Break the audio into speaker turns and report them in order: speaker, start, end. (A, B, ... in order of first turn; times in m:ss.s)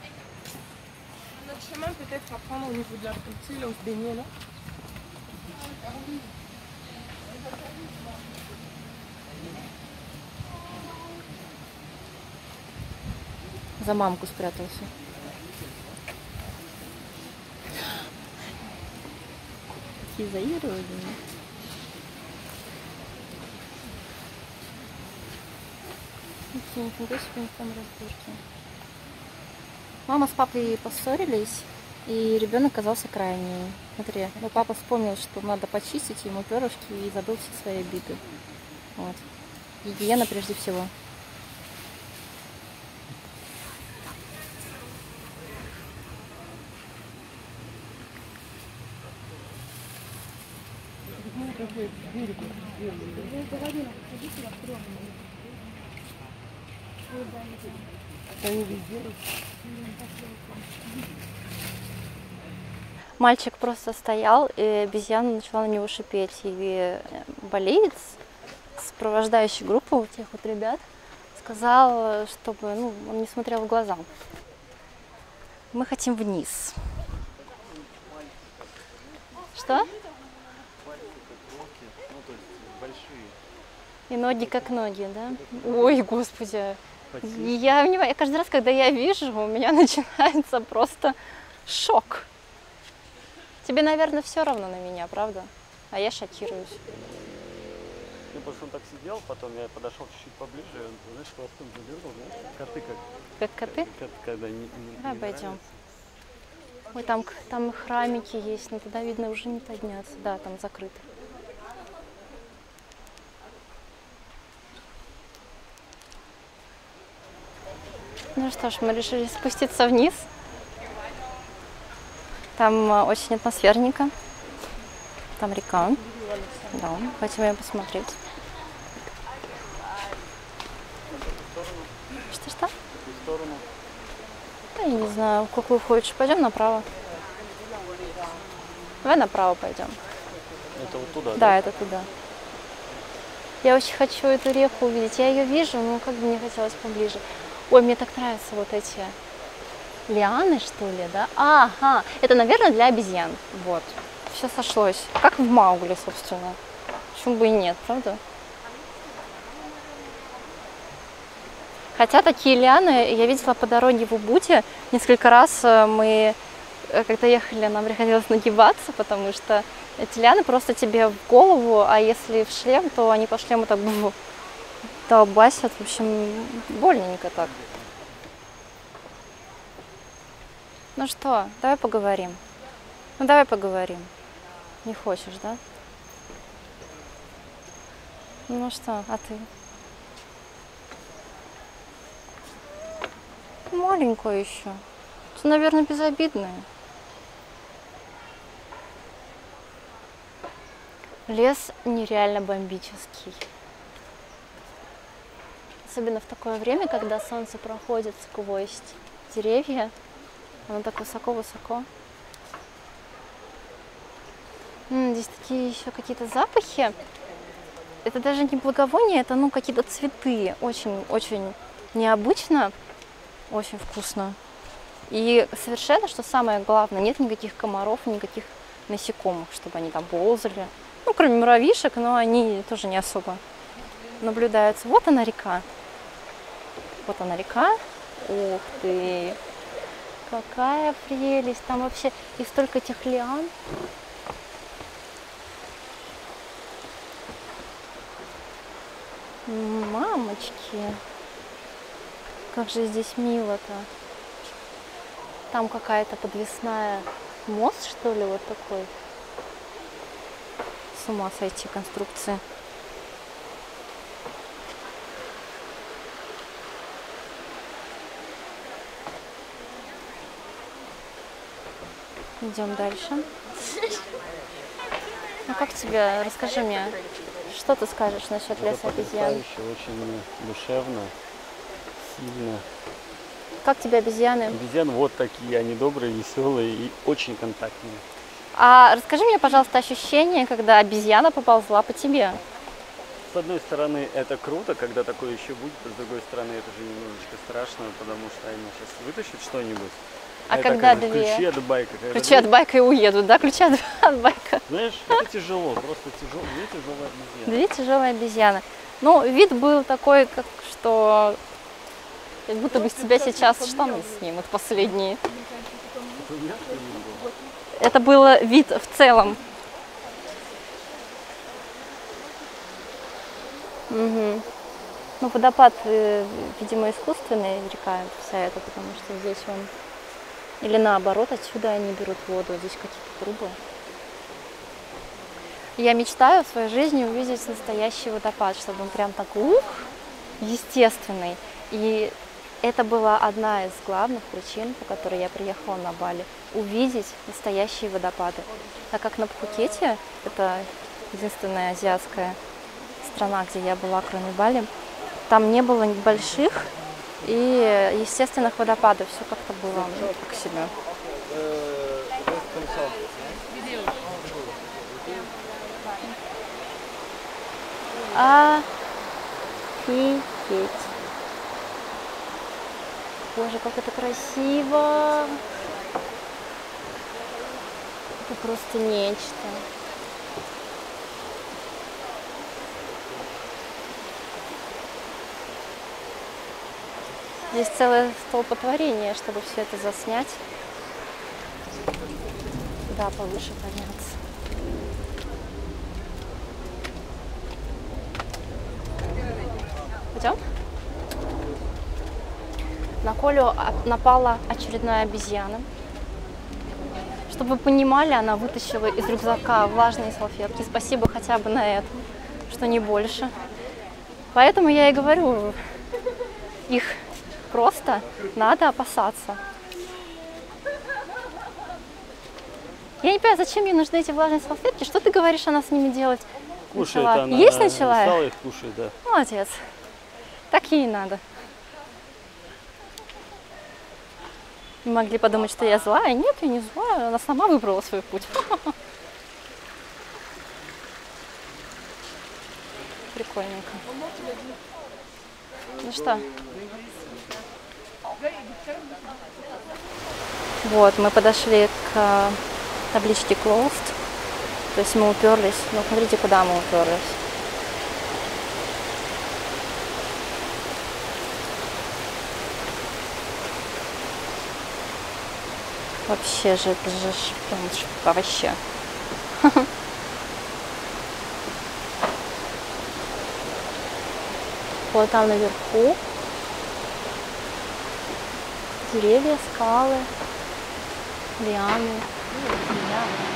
0:01.4-0:04.3 A
0:13.8-0:14.9 B
0:20.1-0:21.2 B
0:26.5-0:28.4 B
0:30.1-0:38.2 B
0:39.0-0:39.2 B
0:39.8-0:40.9 B
0:53.1-0:55.1 A
0:57.2-0:57.8 A
0:58.4-0:58.8 B
0:59.8-1:00.4 A
1:03.2-1:08.2 B
1:08.8-1:10.8 B
1:11.4-1:14.1 B
1:15.7-1:16.8 B
1:17.4-1:18.4 C
1:19.5-1:19.9 B
1:20.8-1:23.3 C
1:24.1-1:32.3 B
1:27.1-1:27.6 C
1:33.6-1:36.8 B
1:38.3-1:43.0 C
1:43.4-1:43.9 B
1:43.6-1:45.7 C
1:45.0-1:45.6 B
1:46.9-1:51.0 B
1:58.4-2:00.3 B
2:02.6-2:04.1 B
2:05.4-2:06.0 B
2:06.7-2:08.2 B
2:11.1-2:11.9 C
2:12.3-2:12.7 B
2:12.9-2:13.6 C
2:14.7-2:16.8 B
2:19.0-2:20.0 B
2:20.7-2:21.6 C
2:21.3-2:22.1 B
2:23.6-2:29.2 B
2:30.1-2:36.6 B
2:37.1-2:38.2 B
2:41.9-2:54.2 B
2:55.0-2:57.5 B
3:01.0-3:02.4 B
3:03.2-3:04.1 B
3:04.8-3:05.6 B
3:08.5-3:09.5 B
3:13.7-3:14.8 B
3:15.3-3:16.6 B
3:21.3-3:23.4 B
3:25.8-3:29.9 B
3:30.7-3:31.9 B
3:34.9-3:37.0 B
3:38.0-3:42.7 B
3:43.5-3:44.4 B
3:45.1-3:53.4 B
3:54.2-3:55.6 B
3:57.0-3:59.4 B
4:00.3-4:03.5 B
4:09.5-4:11.0 B
4:12.5-4:13.9 B
4:15.5-4:18.9 B
4:20.9-4:22.4 B
4:32.4-4:33.3 B
4:35.5-4:39.4 B
4:38.6-4:41.1 C
4:42.0-4:42.6 C
4:43.6-4:44.6 B
4:44.5-4:48.0 C
4:48.5-4:52.4 B
4:53.3-5:02.5 C
5:00.5-5:01.4 B
5:02.1-5:04.6 B
5:04.7-5:07.6 C
5:07.5-5:11.4 B
5:12.5-5:15.2 B
5:15.3-5:17.5 A
5:16.2-5:17.3 C
5:17.7-5:19.4 B
5:23.9-5:24.4 B
5:25.2-5:29.7 B
5:30.6-5:33.6 B
5:35.8-5:52.4 B
5:53.0-5:54.7 B
5:55.3-5:56.7 B
5:57.2-6:00.7 B
6:08.1-6:08.7 B
6:09.8-6:10.9 B
6:13.3-6:15.4 B
6:18.2-6:19.6 B
6:27.5-6:30.4 B
6:32.9-6:34.2 B
6:43.0-6:45.7 B
6:47.3-6:53.3 B
6:54.3-6:55.6 B
6:56.7-6:59.4 B
7:03.0-7:08.2 B
7:06.7-7:08.9 C
7:09.0-7:09.7 B
7:10.5-7:11.2 B
7:14.8-7:18.7 B
7:23.1-7:23.8 B
7:25.8-7:26.3 B
7:26.4-7:27.0 C
7:30.6-7:32.4 B
7:32.9-7:34.0 B
7:34.7-7:37.2 B
7:46.1-7:48.6 B
7:49.4-7:49.7 B
7:54.9-7:56.0 B
7:58.8-8:00.1 B
8:01.4-8:02.1 B
8:02.3-8:03.1 A